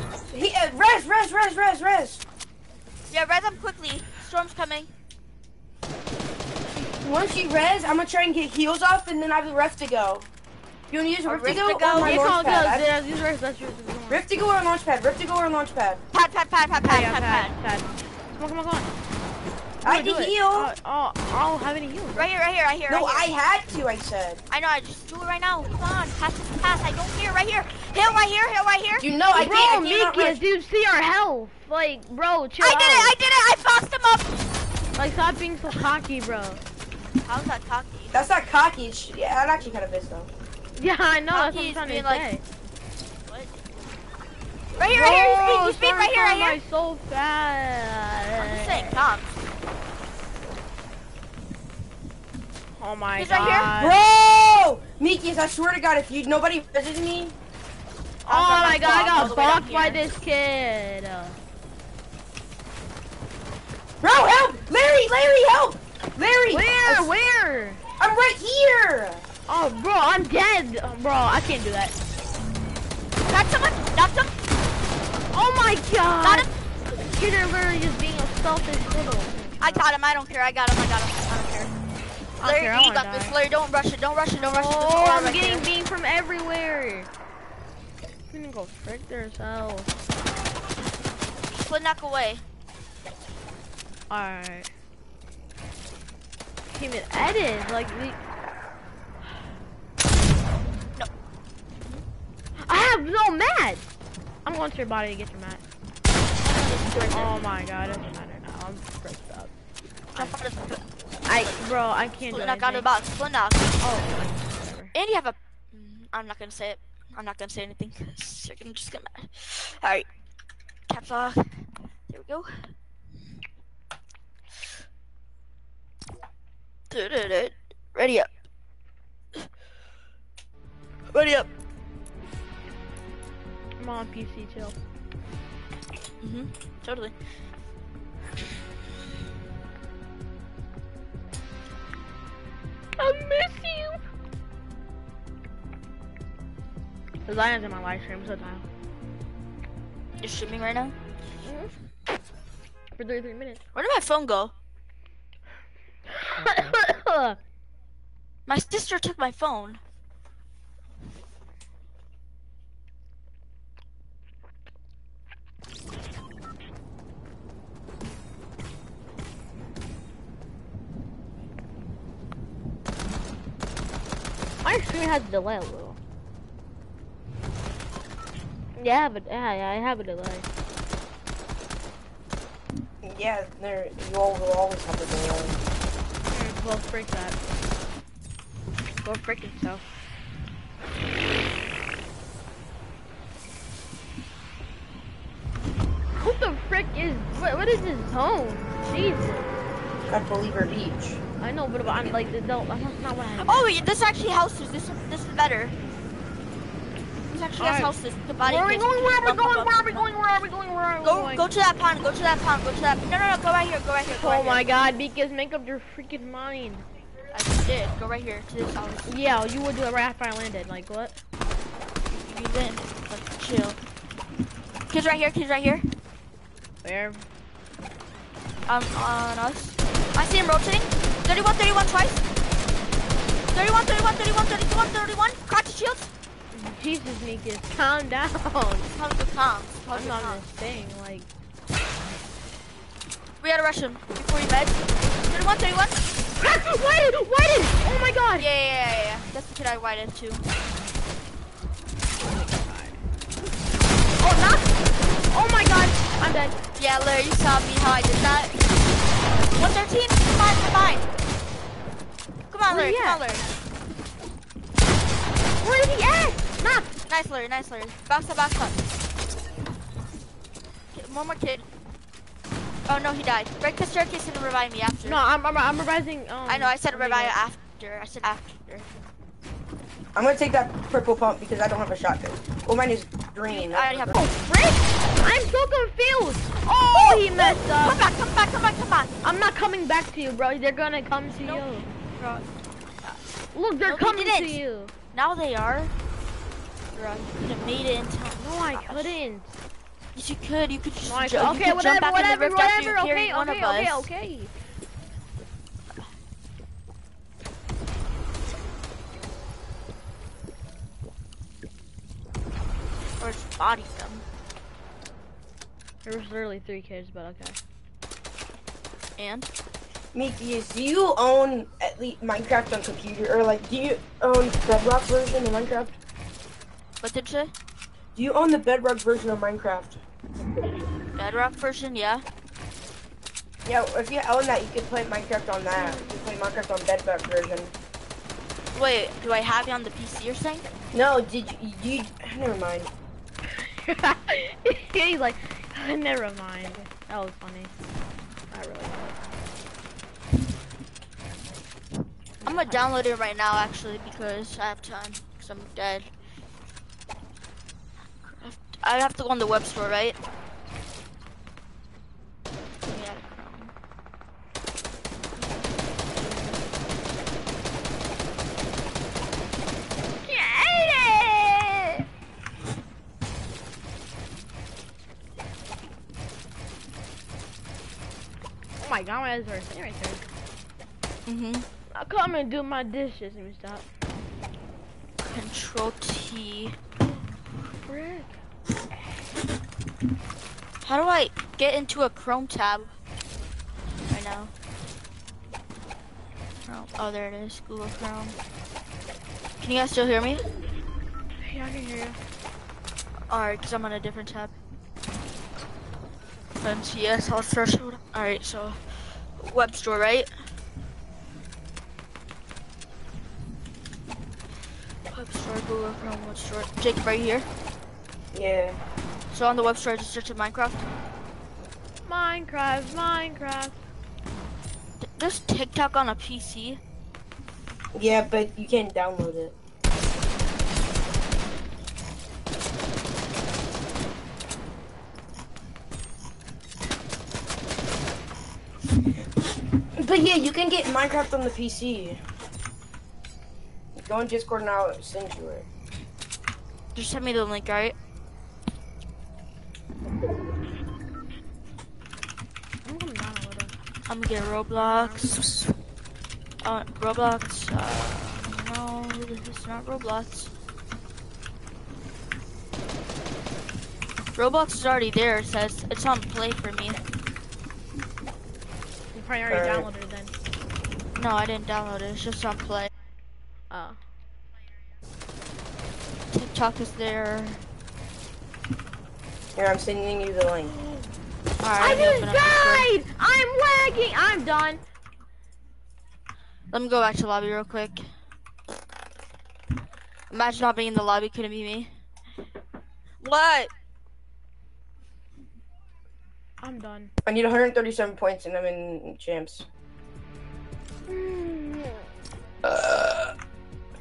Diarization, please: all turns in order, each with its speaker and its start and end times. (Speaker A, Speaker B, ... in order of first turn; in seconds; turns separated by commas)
Speaker A: 0.3-2.2, Speaker B: 3.1-4.9, Speaker A: 6.8-10.3, Speaker A: 10.9-12.9, Speaker B: 11.3-12.3, Speaker C: 12.0-14.2, Speaker A: 14.1-16.1, Speaker B: 16.1-17.5, Speaker C: 16.8-18.9, Speaker A: 19.8-20.7, Speaker C: 19.8-22.3, Speaker B: 22.1-23.3, Speaker A: 22.9-24.4, Speaker B: 24.5-29.1, Speaker A: 29.0-30.4, Speaker C: 29.4-33.1, Speaker B: 32.6-34.4, Speaker C: 35.0-36.6, Speaker B: 37.2-38.1, Speaker A: 38.1-40.3, Speaker C: 40.8-42.4, Speaker B: 41.3-42.3, Speaker B: 44.8-46.6, Speaker C: 44.9-48.9, Speaker B: 48.4-49.3, Speaker C: 52.8-54.0, Speaker B: 53.2-53.7, Speaker A: 53.8-57.4, Speaker C: 58.3-61.4, Speaker B: 58.3-60.0, Speaker A: 64.0-67.1, Speaker C: 66.5-67.8, Speaker A: 68.0-69.3, Speaker C: 69.5-71.9, Speaker B: 73.3-74.3, Speaker C: 75.3-79.8, Speaker B: 76.2-76.5, Speaker B: 79.6-81.7, Speaker B: 82.4-85.6, Speaker C: 82.4-83.3, Speaker C: 84.4-87.1, Speaker C: 88.3-89.9, Speaker B: 91.5-92.4, Speaker C: 94.1-94.7, Speaker C: 96.7-98.2, Speaker C: 102.6-105.6, Speaker B: 106.4-107.4, Speaker C: 107.1-109.5, Speaker B: 110.1-110.8, Speaker C: 111.3-112.9, Speaker B: 112.3-113.8, Speaker C: 113.8-114.9, Speaker B: 114.9-120.0, Speaker B: 120.9-122.7, Speaker B: 126.9-128.3, Speaker B: 131.1-131.5, Speaker C: 133.8-134.8, Speaker B: 136.2-137.1, Speaker C: 143.0-144.0, Speaker C: 147.3-148.7, Speaker B: 150.2-150.9, Speaker C: 151.4-151.7, Speaker C: 152.9-153.6, Speaker B: 153.8-154.5, Speaker C: 156.1-157.4, Speaker B: 158.5-159.8, Speaker C: 174.6-176.0, Speaker C: 178.8-180.5, Speaker A: 183.0-185.6, Speaker C: 186.3-187.4, Speaker C: 189.0-189.9, Speaker C: 196.2-199.6, Speaker A: 200.1-201.2, Speaker C: 201.4-203.7, Speaker B: 203.4-205.7, Speaker B: 207.3-210.1, Speaker C: 207.6-211.4, Speaker B: 211.0-214.6, Speaker C: 214.2-216.9, Speaker B: 217.3-219.4, Speaker C: 219.1-221.2, Speaker B: 222.1-223.8, Speaker B: 224.9-225.9, Speaker C: 226.8-227.2, Speaker B: 228.7-232.2, Speaker B: 233.5-236.1, Speaker C: 236.5-238.9, Speaker B: 238.9-240.4, Speaker C: 239.9-241.3, Speaker B: 243.4-246.0, Speaker C: 246.4-248.5, Speaker B: 248.4-250.4, Speaker C: 252.2-253.0, Speaker C: 254.2-254.8, Speaker C: 255.3-256.6, Speaker B: 256.8-258.6, Speaker B: 259.5-261.1, Speaker B: 262.5-263.5, Speaker C: 262.7-263.2, Speaker C: 265.6-266.9, Speaker B: 267.1-268.8, Speaker B: 270.9-271.6, Speaker B: 272.9-275.2, Speaker C: 275.0-277.4, Speaker B: 276.5-278.6, Speaker A: 280.1-284.2, Speaker B: 283.5-284.7, Speaker C: 284.1-288.0, Speaker B: 286.9-289.1, Speaker C: 289.2-291.9, Speaker B: 291.3-291.6, Speaker B: 292.1-292.4, Speaker C: 293.5-294.9, Speaker B: 293.9-294.6, Speaker B: 295.1-295.9, Speaker B: 296.9-299.1, Speaker C: 298.4-299.6, Speaker B: 300.1-304.1, Speaker C: 301.1-304.6, Speaker B: 313.2-314.2, Speaker C: 316.0-317.6, Speaker B: 319.2-319.5, Speaker A: 320.1-325.9, Speaker B: 327.0-327.5, Speaker A: 328.1-330.0, Speaker B: 331.1-332.2, Speaker A: 333.6-337.7, Speaker C: 335.8-336.1, Speaker B: 338.8-340.6, Speaker A: 340.9-342.9, Speaker C: 343.5-347.7, Speaker C: 348.5-349.2, Speaker C: 352.4-353.0, Speaker B: 352.4-356.1, Speaker B: 358.4-360.2, Speaker B: 362.9-363.7, Speaker C: 370.2-372.0, Speaker C: 378.8-380.2, Speaker B: 381.3-381.6, Speaker C: 381.9-383.9, Speaker B: 385.2-386.8, Speaker C: 387.9-388.4, Speaker B: 390.8-392.9, Speaker B: 394.1-394.5, Speaker B: 396.7-398.4, Speaker B: 399.6-400.4, Speaker C: 401.4-402.2, Speaker B: 403.3-404.5, Speaker B: 406.6-410.3, Speaker B: 415.1-417.5, Speaker A: 418.3-418.8, Speaker B: 419.3-420.9, Speaker C: 422.0-423.9, Speaker B: 425.0-426.8, Speaker A: 427.9-429.5, Speaker A: 440.0-442.2, Speaker A: 443.9-445.6, Speaker B: 446.9-447.9, Speaker C: 452.9-453.8, Speaker B: 454.1-455.7, Speaker C: 454.8-455.6, Speaker B: 456.6-460.5, Speaker B: 464.4-467.0, Speaker C: 469.1-470.3, Speaker A: 469.5-469.9, Speaker B: 471.1-472.9, Speaker C: 473.7-474.0, Speaker B: 476.3-477.6, Speaker A: 479.5-480.7, Speaker B: 481.6-482.9, Speaker C: 481.8-484.8, Speaker B: 486.7-488.0, Speaker B: 490.3-491.9, Speaker B: 493.2-493.7, Speaker C: 496.6-497.1, Speaker A: 497.2-499.7, Speaker C: 501.1-502.0, Speaker A: 502.6-503.4